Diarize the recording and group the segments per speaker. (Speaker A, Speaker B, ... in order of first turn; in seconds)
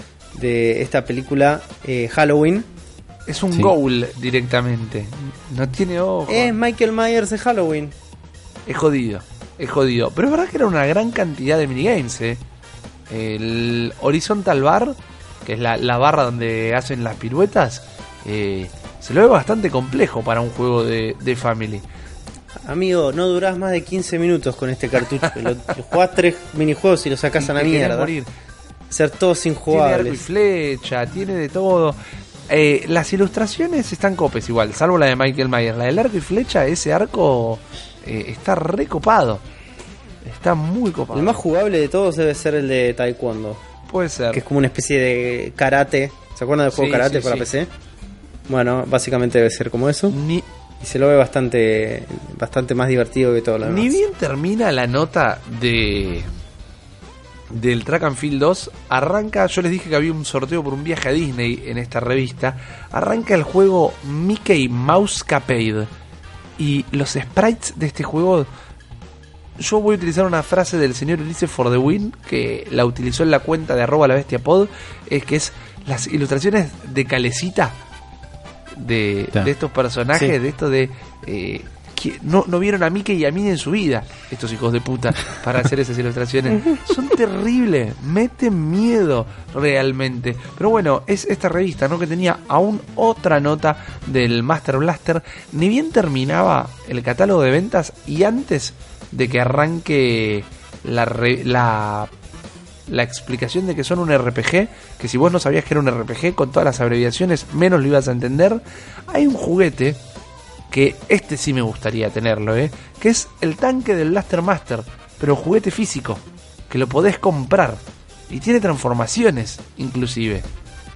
Speaker A: 0.3-2.7, 6.3-7.9, 22.7-28.1, 28.9-30.2, 41.1-43.6, 44.3-47.7, 48.5-50.2, 50.8-54.0
Speaker B: 3.3-6.5, 8.7-12.4, 13.1-21.8, 27.4-28.3, 29.7-32.0, 32.5-39.4, 40.2-41.4, 43.9-44.4, 46.7-47.5, 50.1-50.5, 53.6-56.3, 57.5-65.9, 66.6-68.5, 69.6-77.8, 78.8-102.1, 102.9-110.0, 110.7-120.5